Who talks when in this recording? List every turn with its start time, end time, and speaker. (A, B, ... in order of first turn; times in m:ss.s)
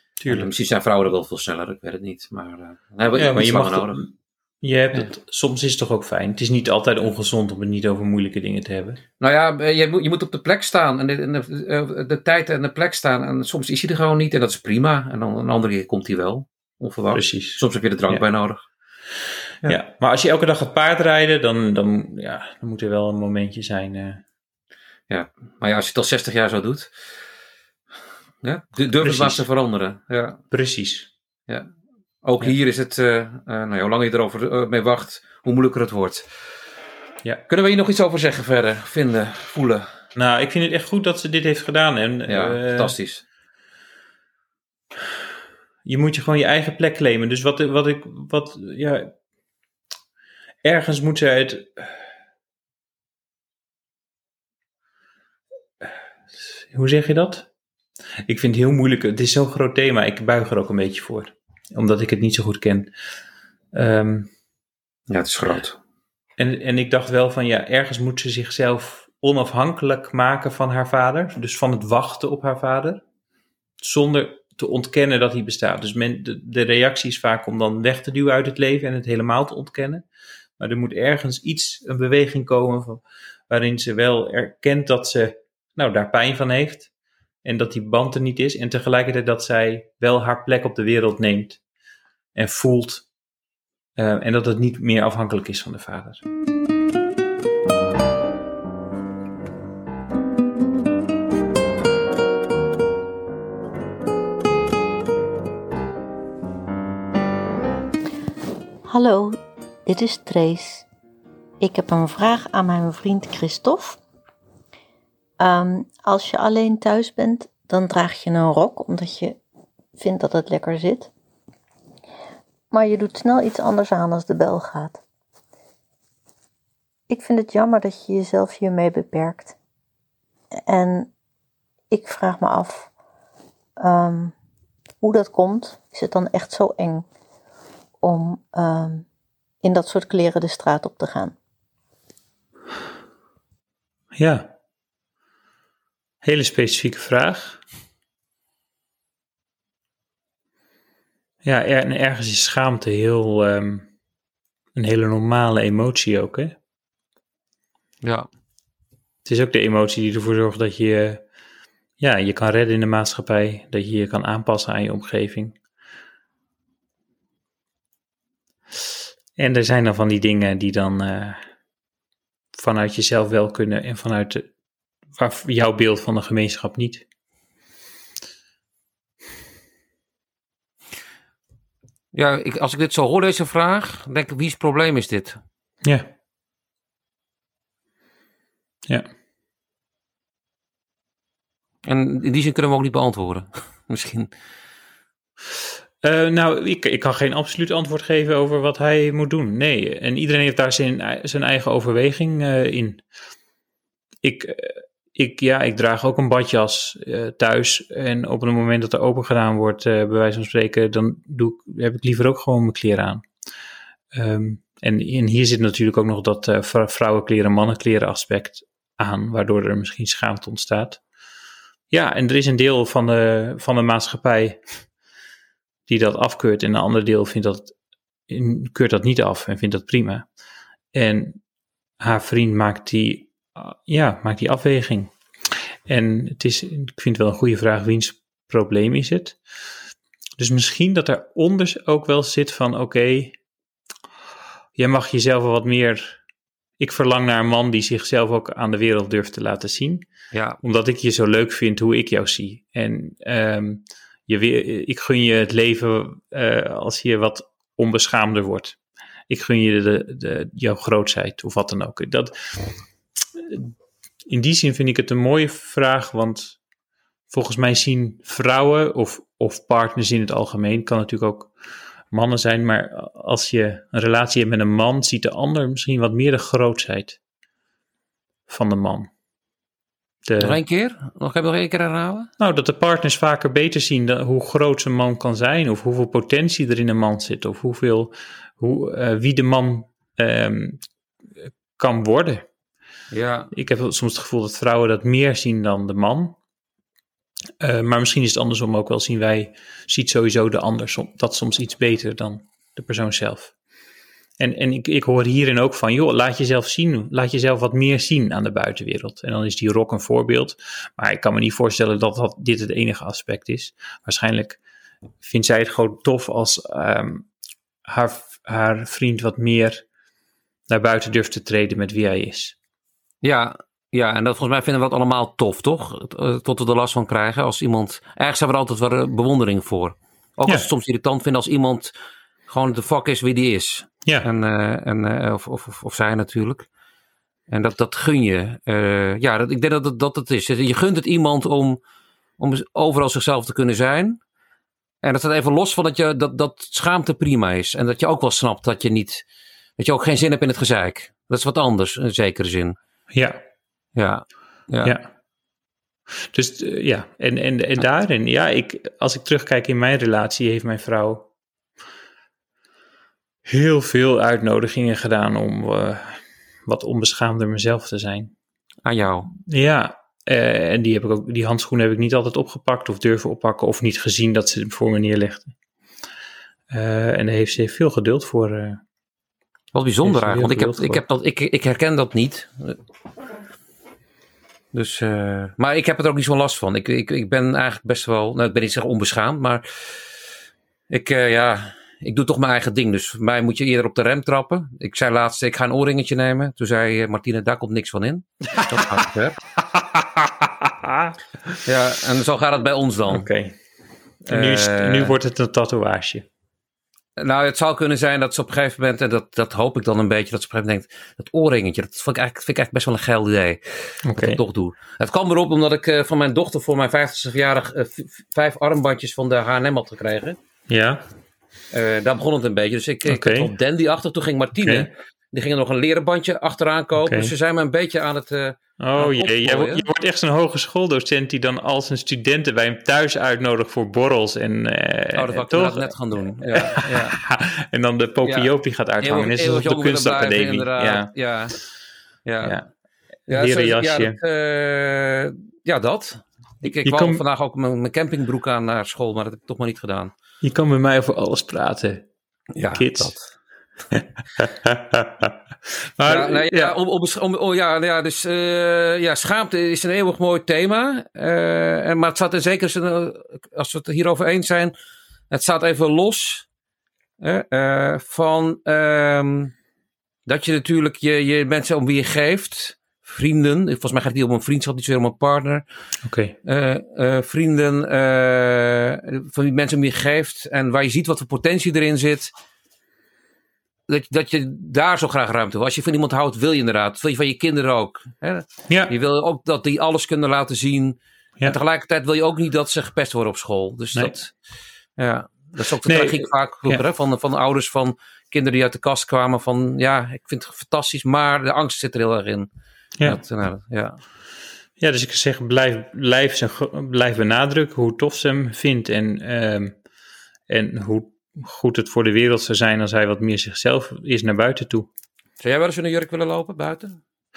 0:00.2-0:00.5 A
0:00.3-0:04.0 B
0:03.1-0:09.0 A
0:09.2-0:18.6 B
0:17.1-0:18.2 A
0:19.6-0:24.2 A
0:25.1-0:26.9 B
0:28.4-0:30.4 B
0:29.0-0:29.4 A
0:30.5-0:31.1 A
0:32.2-0:36.3 B
0:37.5-0:39.9 B
0:40.2-0:42.9 A
0:42.3-0:43.2 B
0:45.8-0:49.1 A
0:50.6-0:52.0 A
0:56.4-0:57.5 A
0:58.3-1:02.9 A
1:03.7-1:04.3 A
1:05.1-1:05.8 B
1:06.4-1:13.0 A
1:13.8-1:20.0 A
1:20.6-1:26.9 A
1:27.4-1:31.6 A
1:32.4-1:33.1 A
1:34.0-1:36.2 A
1:48.9-1:50.8 C
1:51.6-1:54.0 C
1:55.4-1:59.4 C
2:00.0-2:01.1 C
2:02.7-2:05.0 C
2:07.1-2:09.6 C
2:10.7-2:11.1 C
2:11.9-2:12.9 C
2:13.8-2:14.3 C
2:15.0-2:17.1 C
2:18.0-2:19.0 C
2:19.6-2:21.4 C
2:24.2-2:24.5 A
2:26.2-2:27.6 A
2:31.4-2:33.9 A
2:34.8-2:36.6 A
2:38.0-2:38.3 B
2:39.2-2:41.2 A
2:42.0-2:45.6 A
2:49.4-2:51.4 A
2:52.6-2:54.5 A
2:55.2-2:57.0 A
3:02.1-3:05.4 B
3:11.8-3:14.3 B
3:16.0-3:23.0 A
3:24.2-3:33.3 A
3:34.1-3:41.0 A
3:41.9-3:44.8 A
3:45.9-3:47.8 A
3:48.3-3:50.3 A
3:50.9-3:51.4 A
3:52.0-3:55.1 A
3:55.9-3:59.4 A
4:00.4-4:03.4 A
4:04.8-4:06.2 A
4:06.8-4:10.1 A
4:10.3-4:10.6 B
4:10.6-4:18.8 A
4:19.3-4:22.6 A
4:23.4-4:23.7 A
4:24.3-4:26.6 A
4:27.3-4:31.5 A
4:32.1-4:37.2 A
4:38.5-4:39.1 A
4:40.3-4:40.6 A
4:40.4-4:42.3 B
4:42.4-4:50.9 A
4:51.7-4:52.5 A
4:53.1-4:53.5 B
4:53.5-4:56.4 A
4:57.6-5:03.5 A
5:04.4-5:14.6 A
5:15.2-5:17.3 A
5:17.9-5:19.9 A
5:20.7-5:22.6 A
5:23.2-5:31.9 B
5:32.5-5:36.7 B
5:37.5-5:41.8 B
5:42.4-5:44.2 B
5:45.0-5:49.2 B
5:49.8-5:52.8 B
5:53.1-5:53.4 A
5:54.0-5:55.0 B
5:54.8-5:55.1 A
5:56.3-6:01.3 A
6:03.5-6:08.3 A
6:08.8-6:09.3 B
6:09.5-6:15.5 A
6:16.7-6:18.8 A
6:19.7-6:22.8 B
6:20.0-6:21.0 A
6:24.7-6:30.0 B
6:30.9-6:39.4 B
6:38.8-6:39.0 A
6:39.8-6:41.6 A
6:41.7-6:43.3 B
6:43.1-6:43.6 A
6:44.3-6:46.3 A
6:44.3-6:45.1 B
6:47.2-7:00.4 B
6:54.0-6:54.4 A
7:00.7-7:01.0 A
7:01.7-7:09.8 B
7:03.0-7:03.5 A
7:04.6-7:04.9 A
7:07.0-7:07.3 A
7:08.8-7:21.1 A
7:15.2-7:17.2 B
7:18.2-7:21.6 B
7:22.3-7:22.6 B
7:22.4-7:22.7 A
7:23.3-7:24.2 A
7:23.3-7:30.1 B
7:26.6-7:27.2 A
7:30.4-7:32.1 A
7:32.6-7:33.3 B
7:32.7-7:33.2 A
7:33.9-7:35.3 A
7:36.0-7:36.8 A
7:36.0-7:44.8 B
7:45.3-7:46.5 B
7:47.2-7:49.5 B
7:50.3-7:55.6 B
7:56.0-7:56.3 A
7:56.4-8:02.3 B
8:03.9-8:14.3 B
8:15.0-8:22.5 B
8:15.9-8:16.8 A
8:23.0-8:24.0 B
8:24.8-8:29.8 A
8:30.5-8:34.9 A
8:35.4-8:37.0 B